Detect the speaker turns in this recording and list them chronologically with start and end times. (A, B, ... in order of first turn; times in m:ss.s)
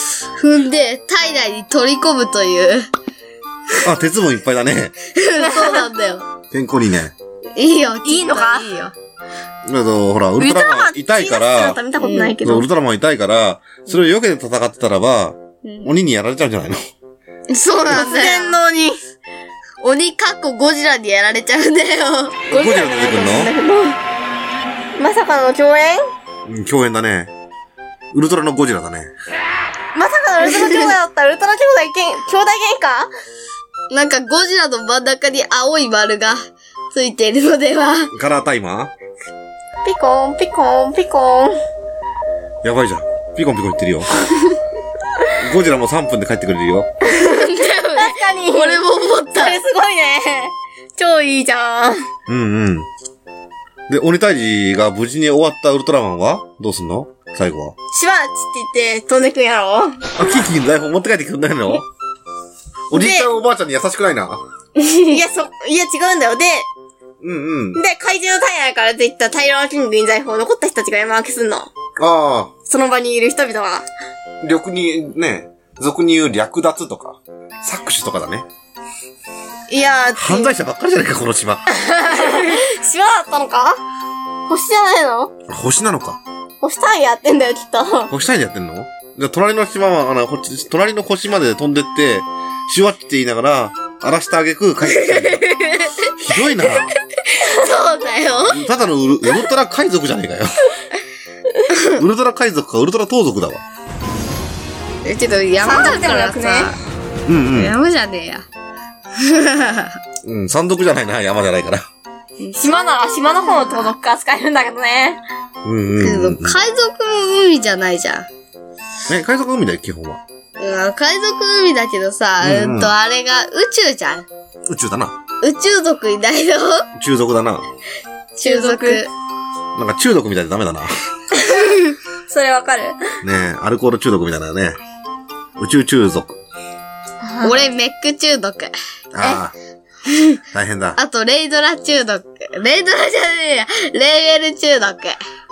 0:00.4-0:02.9 A
0:03.8-0:05.0 B
0:05.1-0:06.3 A
0:05.4-0:05.9 C
0:06.5-0:07.1 B
0:07.6-0:08.9 A
0:08.0-0:08.7 C
0:09.7-0:11.8 B
0:10.4-0:12.7 C
0:12.0-0:12.4 A
0:12.4-0:16.9 B
0:15.6-0:15.9 A
0:17.5-0:18.6 A
0:17.9-0:19.0 C
0:19.8-0:22.5 A
0:22.5-0:23.5 B
0:22.5-0:24.0 C
0:25.0-0:26.0 C
0:26.4-0:27.3 B
0:28.1-0:29.1 B
0:29.9-0:33.1 C
0:33.9-0:36.4 A
0:36.9-0:38.1 A
0:38.1-0:38.9 B
0:39.8-0:41.6 C
0:42.6-0:44.1 B
0:45.4-0:46.9 B
0:47.2-0:49.6 A
0:47.9-0:52.0 C
0:52.3-0:52.9 B
0:53.9-0:57.8 B
0:57.9-1:00.0 C
1:00.2-1:01.9 B
1:02.9-1:04.4 B
1:02.9-1:03.3 C
1:04.8-1:05.2 A
1:05.1-1:06.7 C
1:07.2-1:07.8 B
1:07.7-1:11.7 C
1:12.0-1:12.5 B
1:12.7-1:13.8 C
1:14.4-1:18.5 B
1:19.7-1:20.6 C
1:20.2-1:21.7 B
1:21.7-1:23.8 C
1:24.5-1:25.3 C
1:25.5-1:26.2 B
1:26.6-1:28.1 C
1:28.1-1:35.4 B
1:34.8-1:36.1 A
1:36.2-1:36.9 B
1:36.7-1:38.6 A
1:38.5-1:40.6 B
1:41.7-1:42.0 A
1:41.9-1:43.6 B
1:45.0-1:46.8 A
1:45.6-1:46.7 C
1:47.3-1:47.8 B
1:47.5-1:48.4 A
1:49.2-1:50.0 A
1:50.2-1:51.8 B
1:52.4-1:53.9 A
1:52.6-1:55.2 C
1:55.6-1:56.6 B
1:56.0-1:58.3 A
1:59.1-2:00.2 B
2:00.6-2:04.3 A
2:02.4-2:02.9 B
2:04.7-2:05.2 B
2:05.4-2:06.9 A
2:07.0-2:07.6 B
2:08.4-2:09.1 A
2:08.4-2:09.0 C
2:09.8-2:10.9 B
2:11.4-2:13.0 C
2:13.2-2:14.8 B
2:15.6-2:16.4 B
2:17.2-2:17.6 C
2:17.4-2:18.7 A
2:19.1-2:19.5 B
2:20.5-2:21.0 B
2:21.0-2:25.2 A